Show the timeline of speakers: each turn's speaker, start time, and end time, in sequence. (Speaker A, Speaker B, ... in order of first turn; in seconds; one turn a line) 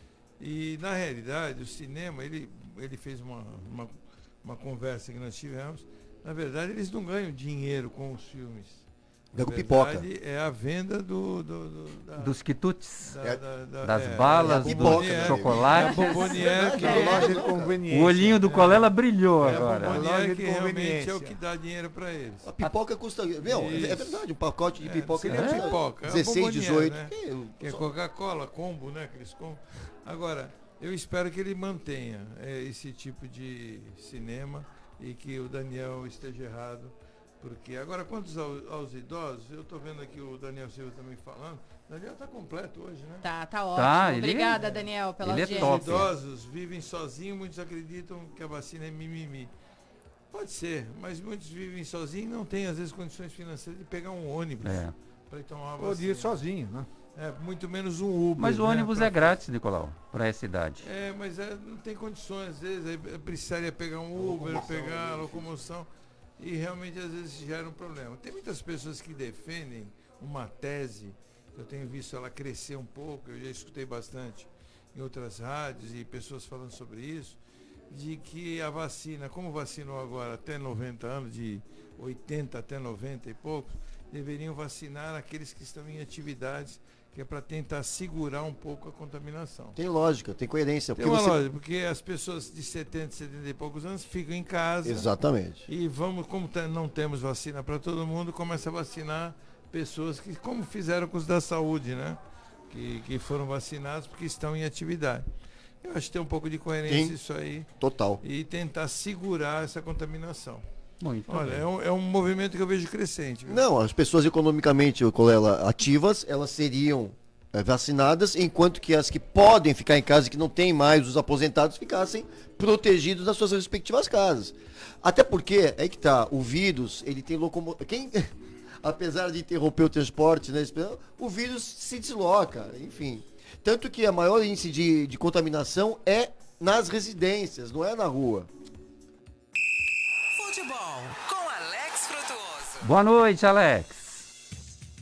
Speaker A: 0.4-12.4
Speaker B: 9.3-10.1
Speaker C: 12.2-13.1
Speaker A: 13.0-17.4
Speaker C: 13.8-17.1
Speaker B: 14.4-17.8
Speaker D: 16.7-18.4
Speaker C: 17.9-20.0
Speaker A: 18.4-18.9
Speaker A: 19.4-22.5
Speaker D: 19.4-21.4
Speaker B: 22.4-27.9
Speaker A: 23.4-43.2
Speaker C: 25.2-25.7
Speaker E: 43.2-46.1
Speaker C: 43.7-44.6
Speaker A: 44.5-49.5
Speaker C: 45.2-46.1
Speaker A: 50.3-56.4
Speaker C: 54.6-54.9
Speaker D: 55.8-56.9
Speaker A: 57.1-59.4
Speaker C: 58.4-60.9
Speaker A: 60.8-65.9
Speaker B: 64.2-65.5
Speaker A: 66.4-77.4
Speaker A: 77.9-89.8
Speaker B: 89.8-91.4
Speaker A: 91.0-95.1
Speaker B: 94.8-95.6
Speaker A: 95.7-102.2
Speaker A: 102.7-105.2
Speaker A: 105.8-107.7
Speaker B: 106.9-107.1
Speaker B: 107.8-108.2
Speaker A: 108.2-110.6
Speaker C: 111.0-111.6
Speaker A: 111.3-113.6
Speaker B: 113.5-128.3
Speaker B: 128.8-138.5
Speaker F: 140.3-142.8
Speaker C: 142.8-144.3